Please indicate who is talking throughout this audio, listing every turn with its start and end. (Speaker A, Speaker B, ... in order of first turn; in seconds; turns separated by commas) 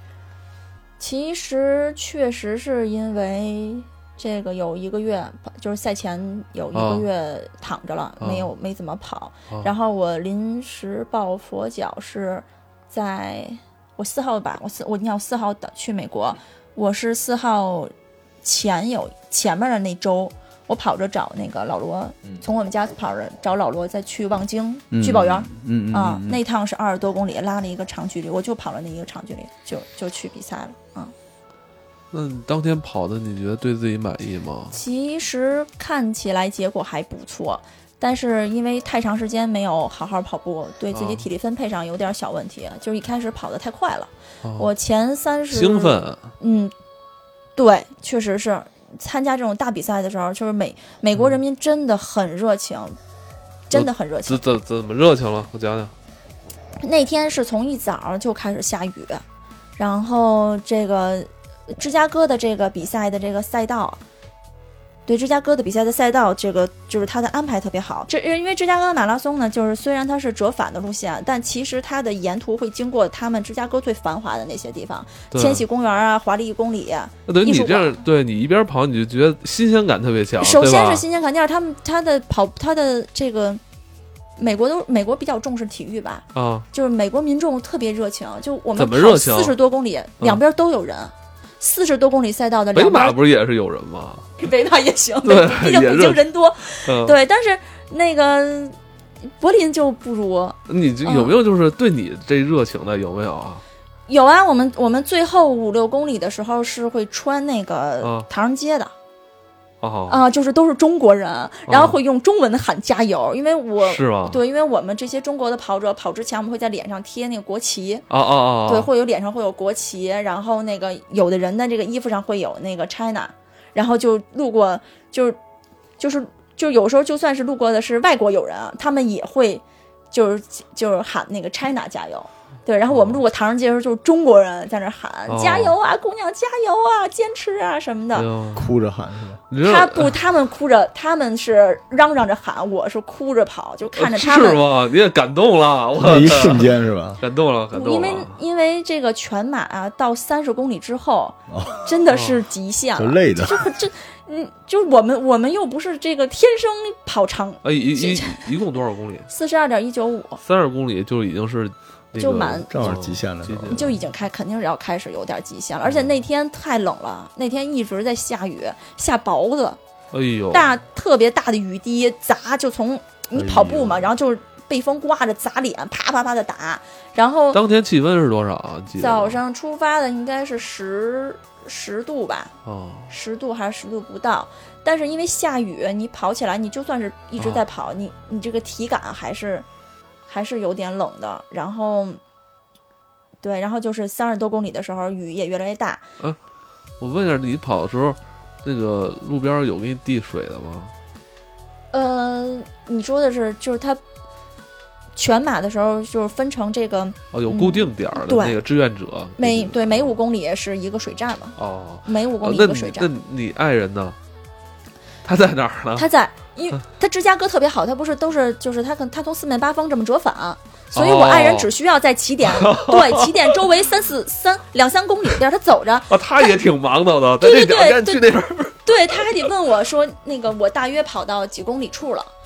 Speaker A: 1.0-31.1, Speaker B: 6.8-7.1, Speaker B: 8.2-8.5, Speaker C: 24.9-26.4, Speaker B: 32.1-34.8, Speaker A: 34.7-46.7, Speaker B: 40.9-41.3, Speaker B: 44.4-44.7, Speaker B: 45.5-46.3, Speaker A: 47.6-53.0, Speaker A: 53.7-54.4, Speaker B: 53.7-55.9, Speaker A: 56.8-59.2, Speaker A: 59.8-64.0, Speaker A: 65.1-78.0, Speaker B: 75.3-75.6, Speaker B: 77.3-81.0, Speaker A: 80.4-83.6, Speaker A: 84.4-93.2, Speaker B: 86.3-86.7, Speaker B: 88.8-89.6, Speaker B: 92.8-94.3, Speaker A: 94.4-98.8, Speaker B: 95.2-96.2, Speaker B: 96.8-97.2, Speaker A: 99.4-101.3, Speaker B: 100.7-103.6, Speaker A: 104.1-108.9, Speaker B: 108.0-108.3, Speaker B: 109.8-110.2, Speaker A: 110.1-118.1, Speaker B: 111.7-112.0, Speaker B: 113.8-114.4, Speaker B: 118.1-118.9, Speaker A: 118.7-125.4, Speaker A: 126.0-138.3, Speaker B: 132.9-133.2, Speaker B: 135.3-135.8, Speaker B: 138.2-138.7, Speaker C: 138.6-139.4, Speaker B: 139.5-140.2, Speaker A: 139.6-144.6, Speaker B: 143.9-148.4, Speaker C: 146.0-147.2, Speaker A: 147.7-158.5, Speaker C: 151.5-151.8, Speaker B: 152.1-152.4, Speaker C: 153.0-153.7, Speaker B: 157.6-159.3, Speaker A: 159.3-160.4, Speaker B: 160.4-164.0, Speaker A: 162.2-162.9, Speaker C: 162.7-163.9, Speaker A: 163.7-169.8, Speaker B: 165.8-166.1, Speaker B: 170.1-170.7, Speaker A: 170.5-177.6, Speaker C: 173.3-174.1, Speaker B: 177.5-179.4, Speaker A: 179.0-182.5, Speaker B: 182.7-183.1, Speaker A: 183.1-189.7, Speaker A: 190.3-192.2, Speaker A: 193.4-196.0, Speaker B: 197.0-200.9, Speaker A: 201.9-204.0, Speaker A: 205.2-208.6, Speaker B: 207.3-210.2, Speaker A: 209.4-213.1, Speaker B: 211.6-214.2, Speaker B: 215.2-216.1, Speaker A: 215.9-226.6, Speaker B: 220.9-221.7, Speaker B: 222.4-223.7, Speaker B: 226.1-229.4, Speaker A: 227.4-228.2, Speaker A: 228.8-232.3